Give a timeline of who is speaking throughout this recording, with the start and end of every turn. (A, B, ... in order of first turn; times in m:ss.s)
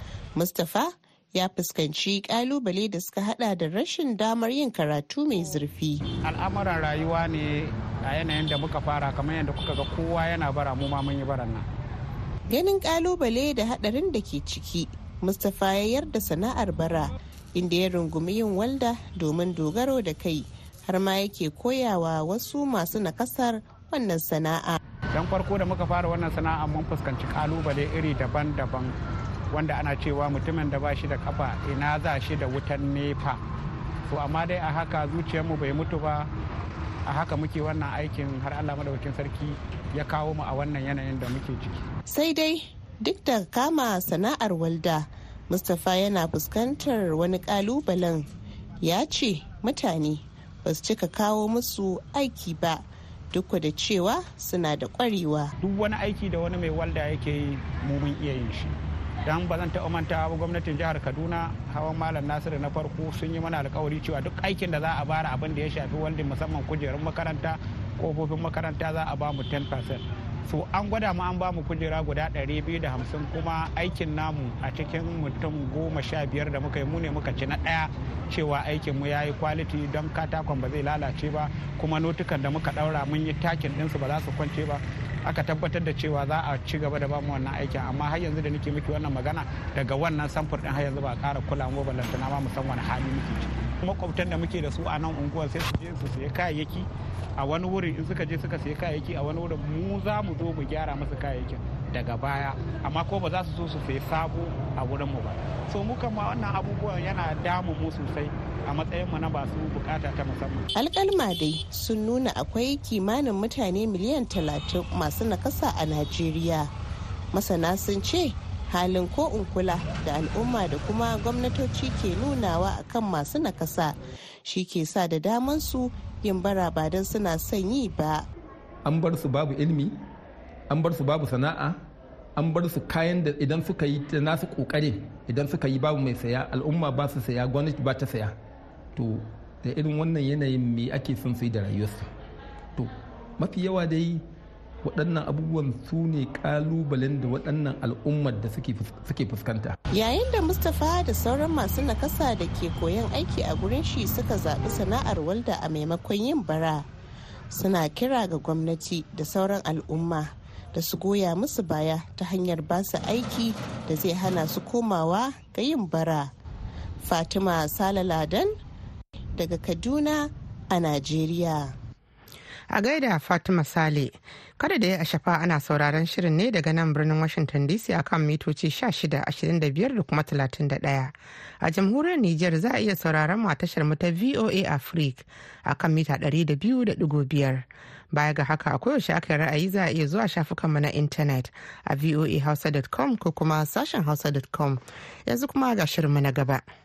0:00.4-0:06.0 A
0:06.3-0:11.7 B
0:12.5-0:24.8 A
0:25.1-0:28.9 B
0:29.5-0:33.4 B
0:34.1-0:36.3 B
0:37.1-0:41.8 B
0:42.1-0:48.3 A
0:48.8-0:55.5 A
0:55.6-0:58.8 B
0:59.3-1:50.7 B
1:50.8-1:56.7 A
1:57.3-2:08.2 A
2:08.8-2:10.0 C
2:10.7-2:11.8 C
2:12.4-2:18.4 C
2:19.0-2:22.1 C
2:22.8-2:24.2 C
2:24.8-2:29.8 C
2:29.9-2:36.9 A
2:37.5-2:46.3 A
2:47.0-2:48.5 A
2:49.4-2:51.8 A
2:52.7-3:16.6 D